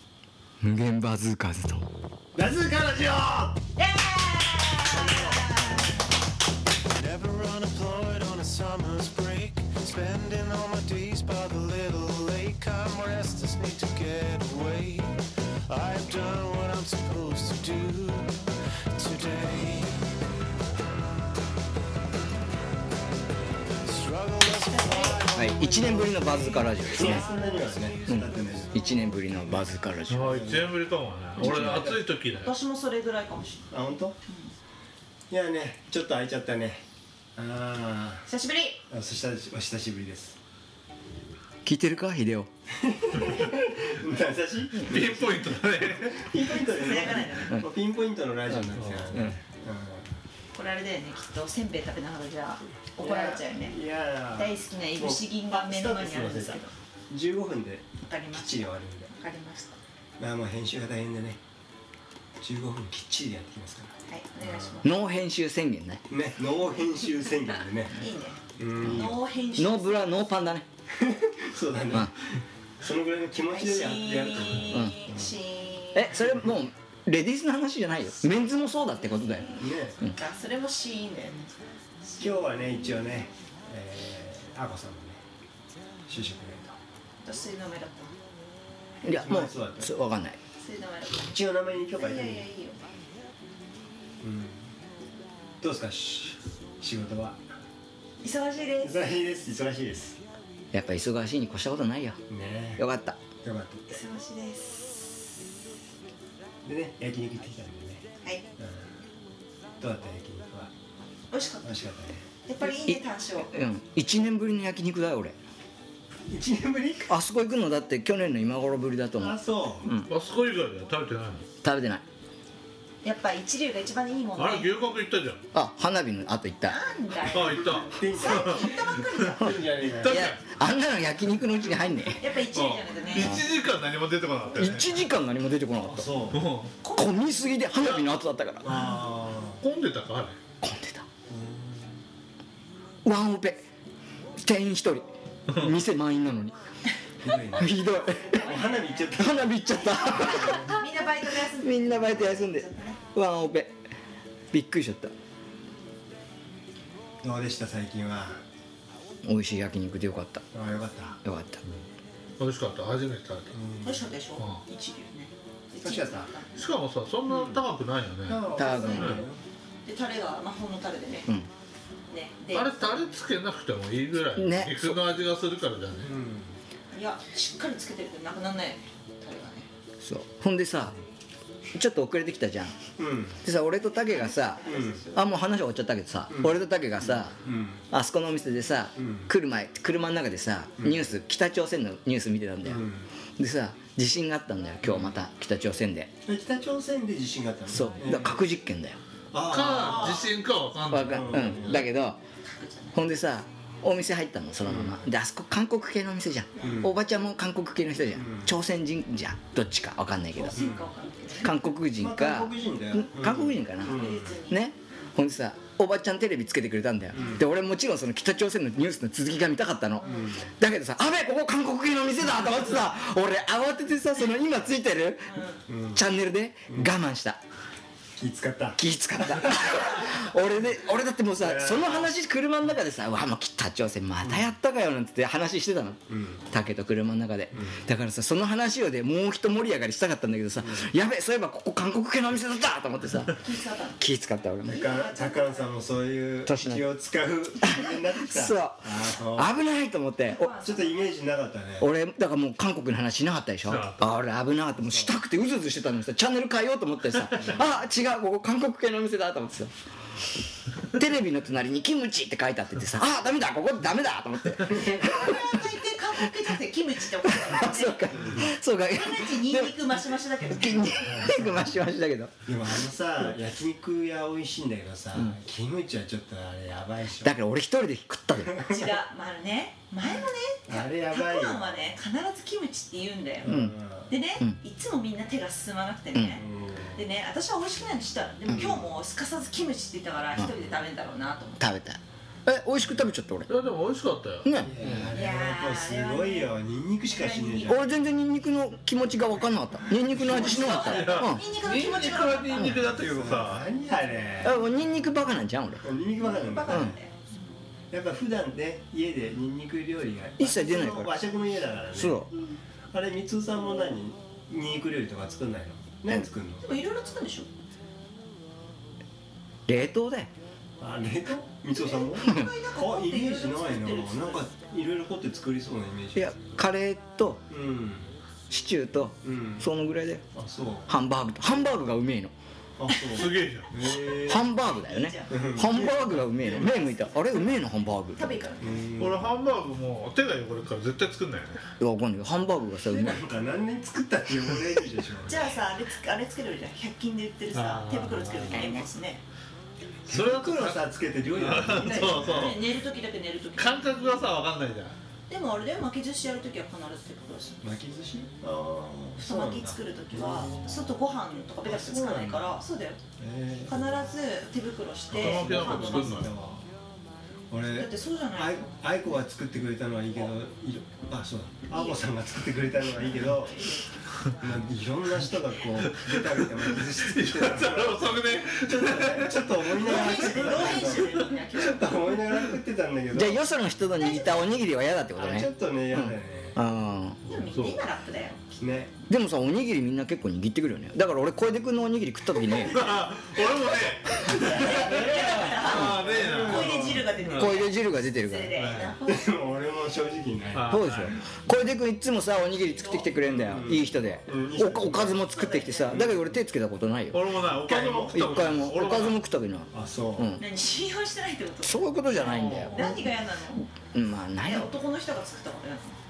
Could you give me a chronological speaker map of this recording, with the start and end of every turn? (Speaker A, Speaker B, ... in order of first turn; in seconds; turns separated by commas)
Speaker A: 0.6-1.9, Speaker B: 2.3-3.6, Speaker C: 3.8-5.9, Speaker D: 5.0-5.7, Speaker B: 5.1-5.6, Speaker D: 6.9-20.1, Speaker D: 23.8-29.0, Speaker C: 24.7-25.2, Speaker A: 25.3-27.3, Speaker B: 26.9-30.8, Speaker A: 28.1-30.5, Speaker E: 30.1-32.5, Speaker B: 31.4-32.0, Speaker A: 31.4-31.9, Speaker C: 31.5-31.8, Speaker C: 32.3-33.7, Speaker B: 33.7-34.1, Speaker C: 34.3-34.5, Speaker B: 35.3-36.8, Speaker B: 37.4-38.3, Speaker C: 38.3-38.8, Speaker B: 38.9-40.4, Speaker A: 41.6-42.5, Speaker B: 42.8-50.1, Speaker E: 44.8-46.3, Speaker C: 46.6-47.6, Speaker A: 48.5-49.3, Speaker C: 50.5-53.8, Speaker B: 53.0-59.1, Speaker C: 54.3-56.7, Speaker C: 58.0-59.7, Speaker B: 60.2-61.4, Speaker B: 62.4-64.8, Speaker C: 64.1-64.9, Speaker A: 64.8-66.0, Speaker B: 66.1-68.0, Speaker C: 67.2-70.2, Speaker B: 68.5-69.2, Speaker A: 69.5-70.7, Speaker B: 71.0-72.1, Speaker B: 72.8-75.3, Speaker C: 73.5-76.2, Speaker A: 74.7-75.0, Speaker A: 75.9-80.1, Speaker B: 79.5-80.0, Speaker C: 80.0-81.5, Speaker C: 82.0-82.5, Speaker B: 82.2-85.2, Speaker B: 86.1-86.8, Speaker C: 87.2-88.1, Speaker B: 89.0-89.9, Speaker A: 89.0-90.4, Speaker C: 90.6-91.3, Speaker B: 91.2-92.5, Speaker C: 92.0-92.8, Speaker B: 94.2-94.7, Speaker B: 95.6-97.4, Speaker C: 98.2-99.0, Speaker B: 98.8-100.2, Speaker A: 100.7-102.2, Speaker B: 102.3-102.8, Speaker A: 102.8-103.2, Speaker B: 103.4-104.0, Speaker C: 103.9-105.4, Speaker B: 106.6-108.0, Speaker B: 108.6-108.9, Speaker B: 109.8-110.7, Speaker C: 111.3-111.8, Speaker B: 111.6-112.2, Speaker C: 112.4-113.5, Speaker A: 112.7-115.3, Speaker B: 116.3-117.1, Speaker A: 117.1-120.1, Speaker B: 119.2-119.9, Speaker E: 120.1-121.5, Speaker A: 121.6-122.0, Speaker C: 123.0-124.8, Speaker E: 124.3-125.4, Speaker A: 125.5-126.8, Speaker C: 126.7-129.4, Speaker E: 127.2-128.7, Speaker B: 127.7-130.2, Speaker E: 129.8-130.4, Speaker A: 130.0-132.2, Speaker C: 132.1-133.4, Speaker E: 132.5-135.1, Speaker A: 133.2-133.4, Speaker A: 134.6-136.1, Speaker B: 135.8-136.4, Speaker E: 136.3-136.8, Speaker C: 136.8-137.1, Speaker A: 136.9-138.8, Speaker E: 137.8-138.1, Speaker B: 138.6-139.6, Speaker E: 139.6-140.4, Speaker A: 140.6-141.1, Speaker B: 141.3-142.0, Speaker A: 143.0-143.6, Speaker A: 144.3-146.5, Speaker B: 147.2-149.6, Speaker A: 147.5-148.5, Speaker C: 148.2-149.2, Speaker A: 149.2-150.8, Speaker C: 149.7-153.0, Speaker B: 150.1-150.7, Speaker A: 151.4-153.7, Speaker A: 154.5-155.1, Speaker B: 157.2-158.4, Speaker A: 159.2-160.4, Speaker B: 160.5-161.2, Speaker A: 161.2-161.6, Speaker E: 162.4-163.5, Speaker B: 163.5-164.0, Speaker C: 163.8-166.7, Speaker E: 164.4-164.6, Speaker B: 165.8-166.3, Speaker E: 166.5-169.2, Speaker B: 167.3-167.6, Speaker B: 168.2-169.4, Speaker A: 168.5-169.2, Speaker C: 168.6-169.3, Speaker C: 169.8-171.3, Speaker C: 172.1-173.1, Speaker E: 172.5-176.1, Speaker A: 174.3-175.0, Speaker B: 176.0-176.5, Speaker C: 176.9-179.7, Speaker A: 180.0-180.9, Speaker A: 181.7-182.7, Speaker B: 183.0-183.4, Speaker A: 183.4-187.3, Speaker C: 183.8-185.2, Speaker B: 184.7-185.0, Speaker B: 186.3-187.8, Speaker A: 187.9-192.8, Speaker B: 188.9-189.3, Speaker B: 190.8-191.1, Speaker B: 192.6-193.1, Speaker A: 193.4-196.1, Speaker B: 194.8-195.2, Speaker B: 196.2-198.4, Speaker A: 197.7-199.0, Speaker B: 199.3-200.3, Speaker E: 199.4-201.6, Speaker C: 199.7-200.3, Speaker A: 200.9-202.2, Speaker B: 201.0-201.9, Speaker C: 202.4-203.0, Speaker A: 202.9-210.6, Speaker B: 204.6-205.1, Speaker C: 206.6-206.8, Speaker B: 206.6-206.9, Speaker B: 208.1-208.6, Speaker C: 210.3-211.7, Speaker B: 210.5-210.9, Speaker A: 211.4-225.4, Speaker B: 211.9-214.4, Speaker C: 213.8-214.7, Speaker B: 217.1-217.4, Speaker B: 220.0-220.5, Speaker C: 225.3-225.6, Speaker B: 225.7-226.0, Speaker A: 225.9-227.4, Speaker B: 226.7-226.9, Speaker B: 228.2-228.8, Speaker A: 228.8-243.4, Speaker B: 231.4-232.1, Speaker B: 234.2-234.5, Speaker B: 236.1-236.5, Speaker B: 237.5-237.8, Speaker B: 240.6-240.9, Speaker C: 243.4-244.0, Speaker A: 244.0-244.8, Speaker B: 244.6-249.5, Speaker C: 244.7-245.8, Speaker A: 246.4-246.8, Speaker A: 248.3-250.5, Speaker C: 250.3-251.1, Speaker B: 250.6-251.9, Speaker A: 251.8-259.7, Speaker E: 253.6-254.1, Speaker B: 254.8-255.1, Speaker B: 257.3-257.8, Speaker A: 260.9-265.6, Speaker C: 264.7-271.4, Speaker A: 267.2-269.8, Speaker B: 268.1-268.5, Speaker A: 270.5-272.4, Speaker B: 271.0-271.8, Speaker B: 272.4-277.4, Speaker A: 277.2-278.7, Speaker B: 278.4-278.9, Speaker C: 278.7-283.6, Speaker B: 280.6-282.0, Speaker B: 283.4-284.1, Speaker A: 283.5-283.8, Speaker C: 284.1-291.6, Speaker A: 286.1-286.4, Speaker B: 286.3-287.1, Speaker B: 288.5-288.9, Speaker A: 291.6-293.5, Speaker E: 293.5-295.1, Speaker A: 294.4-294.7, Speaker B: 294.6-297.9, Speaker C: 295.1-297.9, Speaker A: 297.7-301.4, Speaker B: 300.2-300.7, Speaker C: 300.2-302.7, Speaker E: 300.8-303.6, Speaker A: 302.6-302.8, Speaker B: 302.8-304.6, Speaker A: 304.4-305.8, Speaker B: 305.8-307.0, Speaker C: 306.2-307.6, Speaker A: 306.7-306.9, Speaker B: 307.9-312.3, Speaker A: 310.4-311.1, Speaker A: 311.9-312.3, Speaker B: 312.9-316.6, Speaker C: 316.6-317.5, Speaker A: 319.7-320.3, Speaker B: 320.8-326.4, Speaker C: 321.7-324.4, Speaker A: 322.2-322.5, Speaker A: 326.1-327.4, Speaker B: 327.5-328.1, Speaker A: 328.5-330.2, Speaker B: 329.2-329.7, Speaker B: 330.3-330.9, Speaker A: 330.9-332.3, Speaker B: 332.8-334.5, Speaker E: 333.1-333.7, Speaker A: 333.9-338.3, Speaker C: 334.7-335.5, Speaker B: 335.3-336.8, Speaker C: 336.6-337.4, Speaker C: 338.1-338.9, Speaker B: 338.6-339.2, Speaker E: 339.0-341.6, Speaker A: 341.8-343.2, Speaker B: 342.8-345.6, Speaker C: 345.3-349.2, Speaker E: 347.5-348.8, Speaker B: 350.1-352.6, Speaker E: 350.1-352.6, Speaker C: 351.7-354.4, Speaker E: 353.6-354.9, Speaker C: 355.3-357.7, Speaker B: 357.6-361.0, Speaker C: 359.2-363.0, Speaker B: 361.6-362.6, Speaker B: 363.2-364.0, Speaker C: 363.6-366.2, Speaker E: 365.1-366.3, Speaker B: 365.1-366.6, Speaker B: 367.5-373.6, Speaker C: 367.7-369.1, Speaker C: 371.7-372.1, Speaker C: 372.8-374.6, Speaker B: 374.4-383.4, Speaker E: 375.8-381.1, Speaker C: 379.8-382.2, Speaker A: 383.1-387.2, Speaker C: 384.0-384.4, Speaker B: 385.1-386.6, Speaker C: 387.2-388.6, Speaker E: 387.3-387.8, Speaker B: 388.6-388.9, Speaker A: 389.1-392.8, Speaker E: 392.7-397.6, Speaker C: 394.2-399.3, Speaker B: 394.5-397.1, Speaker A: 397.3-398.6, Speaker B: 398.6-400.8, Speaker E: 400.5-401.2, Speaker A: 400.7-407.2, Speaker C: 402.6-403.1, Speaker B: 403.2-405.2, Speaker C: 405.2-406.0, Speaker B: 405.9-406.4, Speaker E: 407.1-409.2, Speaker B: 407.5-408.2, Speaker A: 408.0-410.4, Speaker B: 409.7-410.4, Speaker C: 410.4-413.7, Speaker A: 411.6-413.0, Speaker E: 412.2-412.9, Speaker A: 413.8-414.7, Speaker C: 414.4-415.9